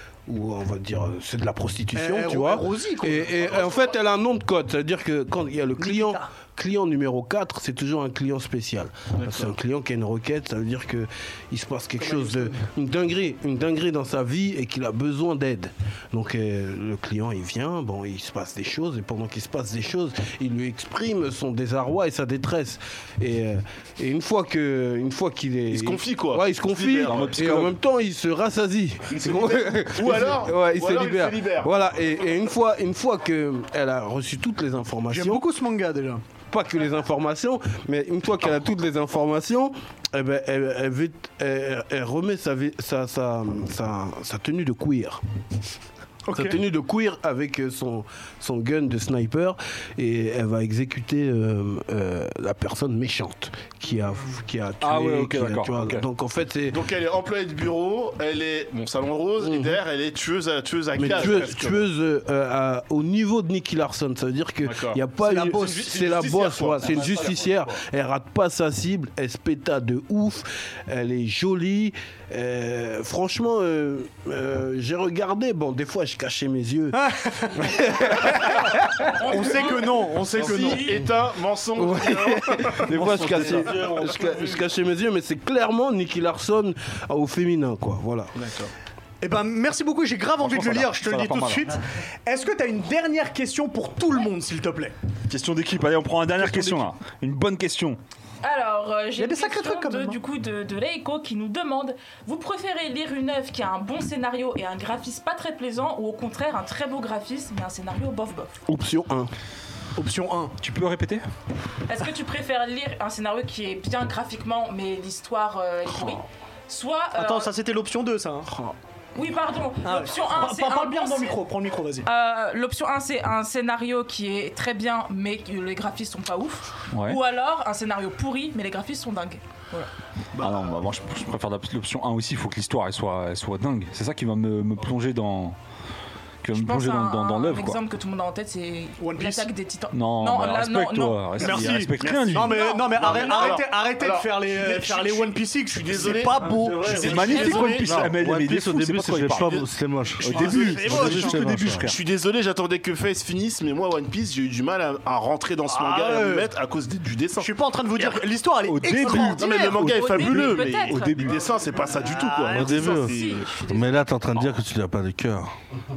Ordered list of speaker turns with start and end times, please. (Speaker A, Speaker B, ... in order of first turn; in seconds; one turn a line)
Speaker A: 0.3-35.4
Speaker B: 1.9-3.4
Speaker C: 3.4-4.0
Speaker B: 5.8-6.3
Speaker C: 9.2-9.5
Speaker B: 12.0-12.6
Speaker C: 25.7-27.7
Speaker D: 27.1-27.7
Speaker C: 29.1-31.7
Speaker B: 35.1-36.2
Speaker A: 36.5-45.2
Speaker B: 46.3-46.6
Speaker A: 46.3-56.8
Speaker D: 54.8-56.0
Speaker C: 56.7-61.9
Speaker A: 59.4-59.8
Speaker A: 61.0-77.0
Speaker C: 64.6-65.0
Speaker B: 65.2-65.9
Speaker C: 65.6-67.3
Speaker E: 66.8-67.8
Speaker B: 77.0-80.9
Speaker A: 77.5-79.0
Speaker F: 79.1-81.0
Speaker C: 80.3-82.5
Speaker A: 81.8-88.3
Speaker E: 82.0-84.7
Speaker D: 82.9-83.8
Speaker C: 88.4-88.7
Speaker B: 89.2-95.0
Speaker D: 90.4-91.8
Speaker D: 95.3-98.0
Speaker B: 96.5-96.8
Speaker F: 98.4-108.5
Speaker B: 99.2-100.2
Speaker A: 108.7-109.3
Speaker B: 110.0-110.6
Speaker D: 110.6-111.2
Speaker F: 111.9-117.5
Speaker B: 117.2-118.5
Speaker F: 119.1-121.4
Speaker B: 119.8-122.1
Speaker F: 122.0-129.9
Speaker D: 126.9-127.2
Speaker D: 130.4-135.6
Speaker D: 136.4-137.8
Speaker F: 136.5-141.4
Speaker B: 139.0-139.5
Speaker D: 139.9-142.5
Speaker B: 141.4-147.8
Speaker C: 142.0-148.1
Speaker F: 142.4-143.7
Speaker E: 146.4-151.8
Speaker D: 146.9-149.7
Speaker D: 150.2-152.0
Speaker B: 150.2-151.5
Speaker C: 151.8-157.5
Speaker B: 155.7-156.5
Speaker B: 157.4-159.8
Speaker D: 158.7-161.4
Speaker C: 159.0-163.0
Speaker F: 159.6-161.2
Speaker B: 161.7-163.3
Speaker E: 162.4-165.6
Speaker F: 162.9-164.0